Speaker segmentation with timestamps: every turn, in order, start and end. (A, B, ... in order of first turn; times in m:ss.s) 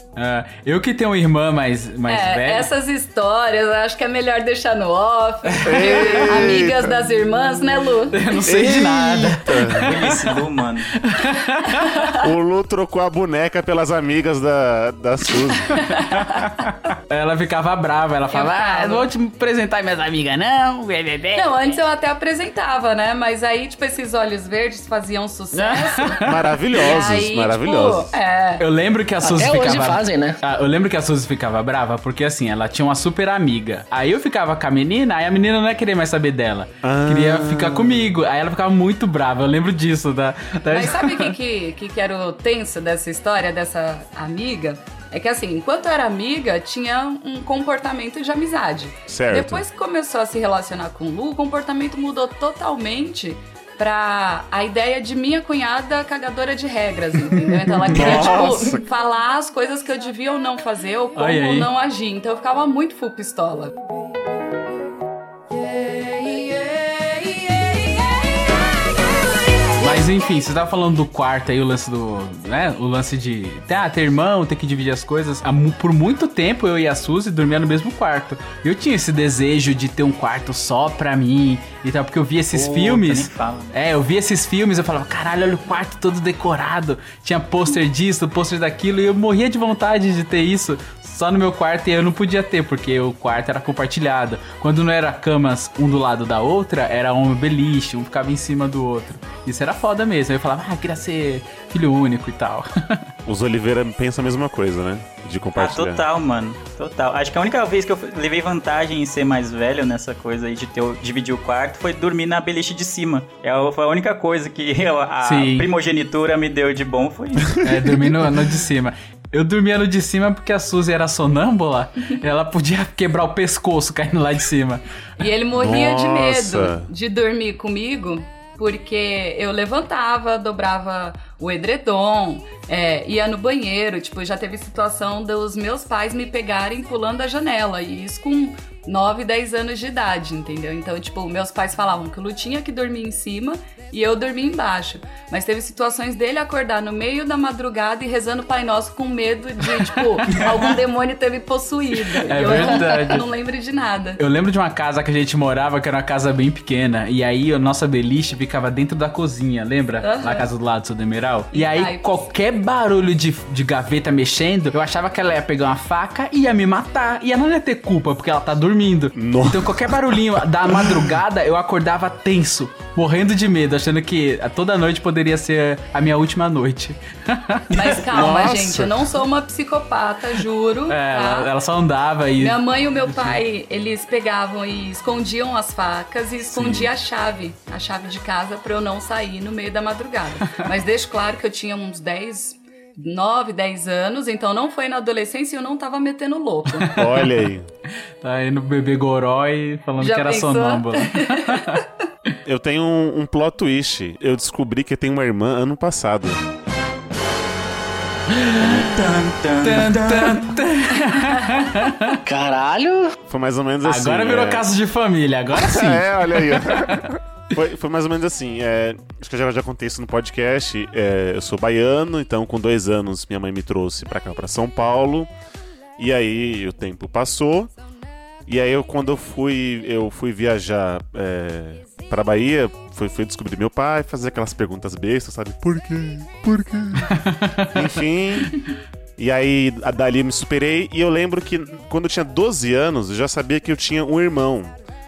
0:00.2-0:02.7 A
0:02.1-0:08.2 B
0:05.6-0:07.0 C
0:05.6-0:06.3 A
0:08.1-0:10.2 A
0:08.4-0:09.9 C
0:09.8-0:10.9 D
0:11.0-0:11.9 A
0:12.2-0:15.7 C
0:17.1-0:21.7 A
0:18.3-0:19.1 B
0:21.3-0:28.6 B
0:25.5-0:26.4 A
0:26.2-0:28.1 C
0:28.6-0:41.3 A
0:29.2-0:30.4 E
0:36.8-0:38.2 C
0:40.7-1:03.8 B
0:49.1-0:49.6 C
0:57.5-0:58.3 A
0:57.9-0:58.8 C
1:01.2-1:01.7 A
1:09.8-1:43.0 A
1:22.5-1:23.7 D
1:43.2-1:46.0 C
1:45.6-1:57.6 D
1:55.2-1:55.7 A
1:57.6-2:04.8 A
2:05.2-2:34.2 B
2:05.6-2:06.9 C
2:29.8-2:30.5 A
2:32.2-2:33.2 A
2:34.2-2:58.5 A
2:40.0-2:40.5 B
2:41.5-2:42.0 B
2:49.1-2:51.2 C
2:57.7-3:01.5 B
2:58.1-2:59.0 C
3:00.9-3:02.6 A
3:02.4-3:17.0 B
3:06.5-3:06.9 C
3:17.0-3:17.7 C
3:18.2-3:21.8 A
3:20.0-3:21.8 B
3:22.4-3:26.4 C
3:28.3-3:29.0 A
3:28.9-3:30.3 D
3:29.6-3:32.2 A
3:32.2-3:33.1 E
3:33.3-3:34.7 C
3:33.8-3:37.0 A
3:35.6-3:45.3 C
3:46.0-3:47.7 C
3:48.5-3:58.6 C
3:57.1-3:57.8 A
3:59.2-4:04.7 C